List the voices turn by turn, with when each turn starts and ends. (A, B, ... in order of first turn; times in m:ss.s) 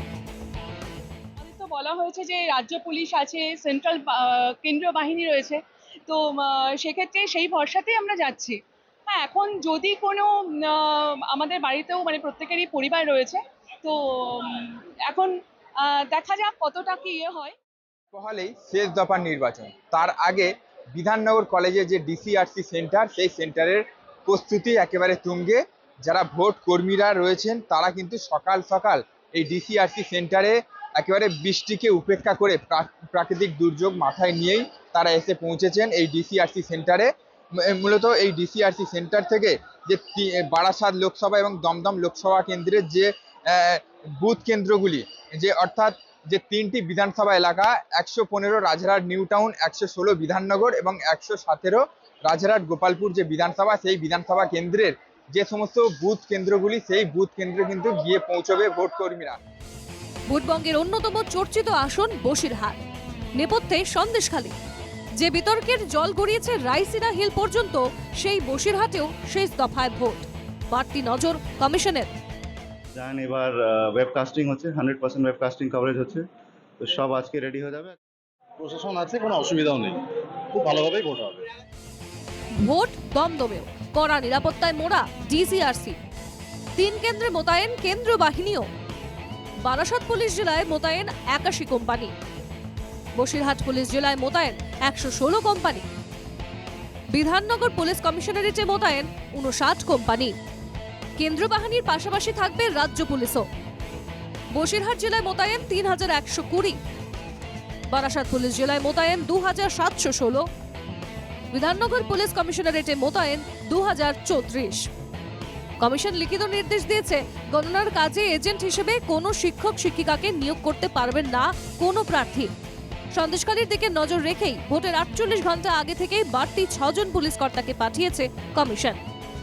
0:01.4-0:08.6 A
0:09.1-0:17.6 A
0:18.1-0:37.1 B
0:37.6-0:59.4 B
1:00.3-1:02.8 C
1:03.4-1:04.5 C
1:05.2-1:12.1 C
1:12.9-1:16.3 D
1:16.8-1:18.0 D
1:18.6-1:21.5 E
1:22.6-1:26.0 C
1:26.8-1:28.7 C
1:29.6-1:32.1 C
1:33.2-1:35.8 C
1:37.1-1:40.4 C
1:41.2-1:43.5 C
1:44.5-1:46.8 C
1:47.9-1:50.5 C
1:51.5-1:54.8 C
1:55.8-2:02.5 C
2:03.1-2:09.0 C